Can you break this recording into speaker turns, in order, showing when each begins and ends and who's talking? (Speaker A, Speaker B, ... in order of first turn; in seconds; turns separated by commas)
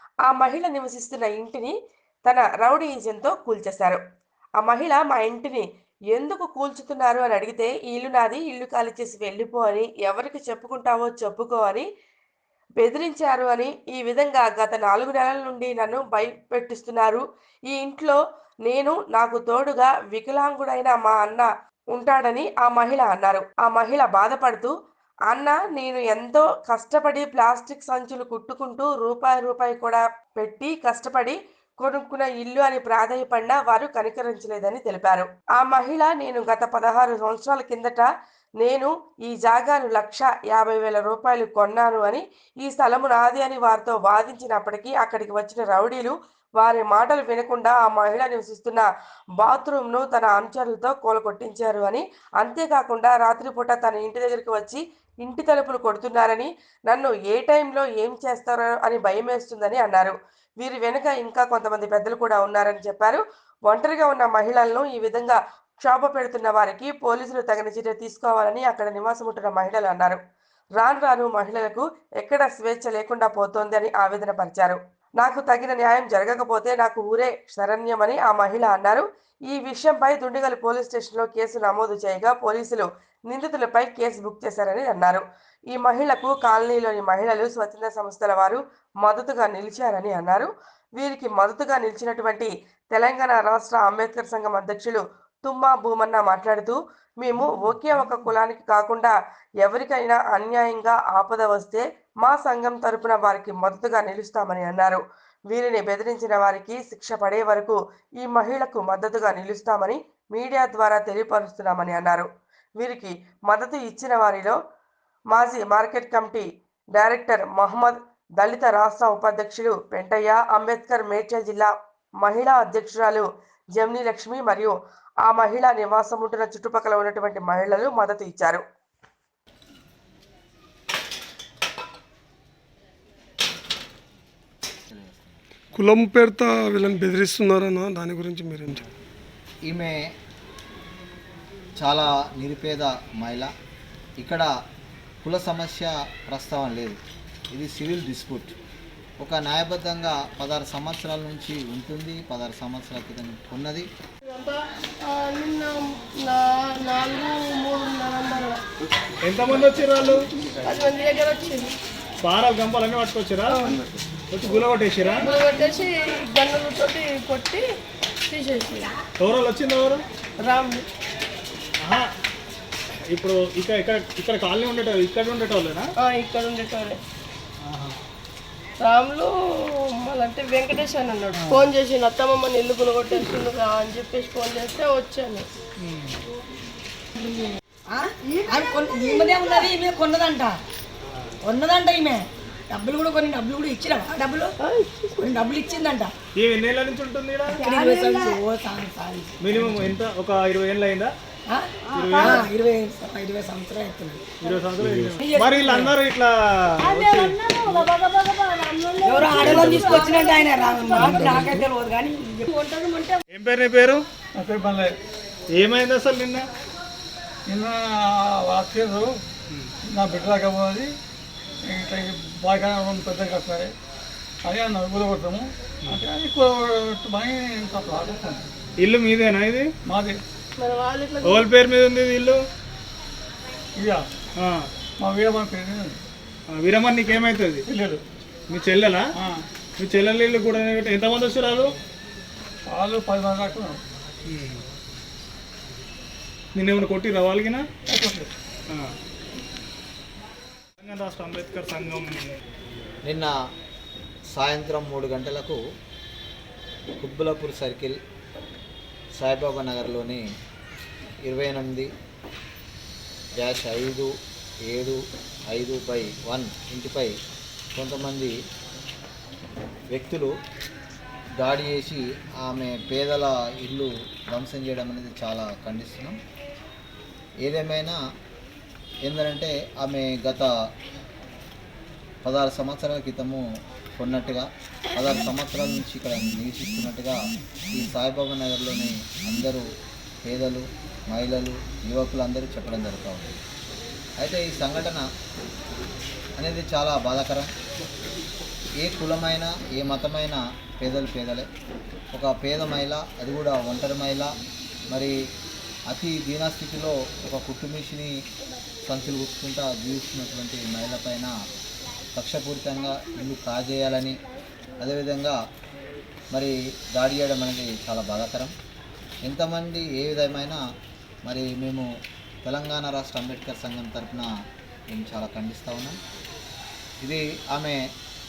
Speaker A: 0.2-4.0, Speaker A: 4.6-11.8, Speaker A: 12.8-24.7, Speaker A: 25.3-38.1, Speaker A: 38.6-48.8, Speaker A: 49.4-70.2, Speaker A: 70.8-114.6, Speaker A: 115.3-128.6, Speaker B: 134.8-135.4, Speaker C: 135.7-138.8, Speaker B: 139.7-140.1, Speaker B: 141.8-143.5, Speaker B: 144.2-144.5, Speaker B: 145.2-147.0, Speaker B: 147.5-148.5, Speaker B: 149.2-153.9, Speaker D: 154.2-154.6, Speaker E: 155.1-158.6, Speaker D: 159.2-160.2, Speaker E: 160.6-161.7, Speaker D: 162.2-163.6, Speaker E: 163.5-163.8, Speaker D: 164.3-165.2, Speaker E: 165.2-167.6, Speaker E: 168.3-168.9, Speaker D: 169.2-170.0, Speaker E: 170.4-170.8, Speaker D: 171.8-172.1, Speaker D: 173.1-175.9, Speaker E: 176.0-177.0, Speaker D: 177.6-177.9, Speaker E: 178.8-179.3, Speaker E: 179.9-185.5, Speaker D: 181.4-181.7, Speaker D: 185.8-186.2, Speaker F: 187.3-190.6, Speaker F: 191.4-194.5, Speaker E: 194.6-195.3, Speaker F: 195.2-196.1, Speaker D: 196.3-197.6, Speaker F: 197.6-199.9, Speaker E: 197.6-197.9, Speaker D: 199.4-201.1, Speaker F: 201.5-204.2, Speaker D: 201.9-202.5, Speaker E: 202.1-202.3, Speaker D: 204.4-207.9, Speaker F: 205.1-205.9, Speaker F: 209.0-212.7, Speaker D: 209.4-209.8, Speaker D: 211.0-211.6, Speaker D: 213.3-214.0, Speaker G: 214.3-214.9, Speaker D: 215.6-216.4, Speaker G: 217.5-219.2, Speaker G: 219.9-220.9, Speaker G: 221.6-223.7, Speaker G: 224.4-228.5, Speaker D: 228.8-229.7, Speaker G: 229.8-230.2, Speaker E: 230.6-231.5, Speaker D: 231.2-232.4, Speaker G: 233.8-234.1, Speaker D: 234.4-234.7, Speaker G: 235.0-236.0, Speaker D: 236.5-237.6, Speaker G: 237.7-238.0, Speaker D: 238.5-239.1, Speaker G: 239.1-239.4, Speaker D: 239.8-241.7, Speaker G: 242.7-243.8, Speaker D: 244.3-244.6, Speaker D: 246.6-247.6, Speaker G: 247.9-248.3, Speaker D: 250.8-252.1, Speaker B: 253.0-253.3, Speaker B: 254.3-255.6, Speaker B: 257.0-258.0, Speaker B: 259.2-260.3, Speaker B: 261.2-261.9, Speaker B: 263.4-264.1, Speaker B: 264.7-267.1, Speaker B: 267.7-268.3, Speaker B: 269.9-270.3, Speaker B: 271.4-276.2, Speaker B: 277.4-278.0, Speaker B: 279.0-280.5, Speaker B: 282.2-283.4, Speaker B: 283.9-287.2, Speaker B: 287.7-289.6, Speaker B: 290.2-293.4, Speaker B: 294.2-295.1, Speaker B: 296.4-297.5, Speaker B: 298.8-301.5, Speaker B: 302.1-304.3, Speaker B: 305.9-308.1, Speaker B: 308.9-311.3, Speaker B: 312.1-314.2, Speaker B: 314.8-315.4, Speaker B: 316.3-318.5, Speaker B: 319.2-320.6, Speaker B: 321.2-321.9, Speaker B: 322.4-324.3, Speaker B: 324.9-326.0, Speaker B: 327.0-327.8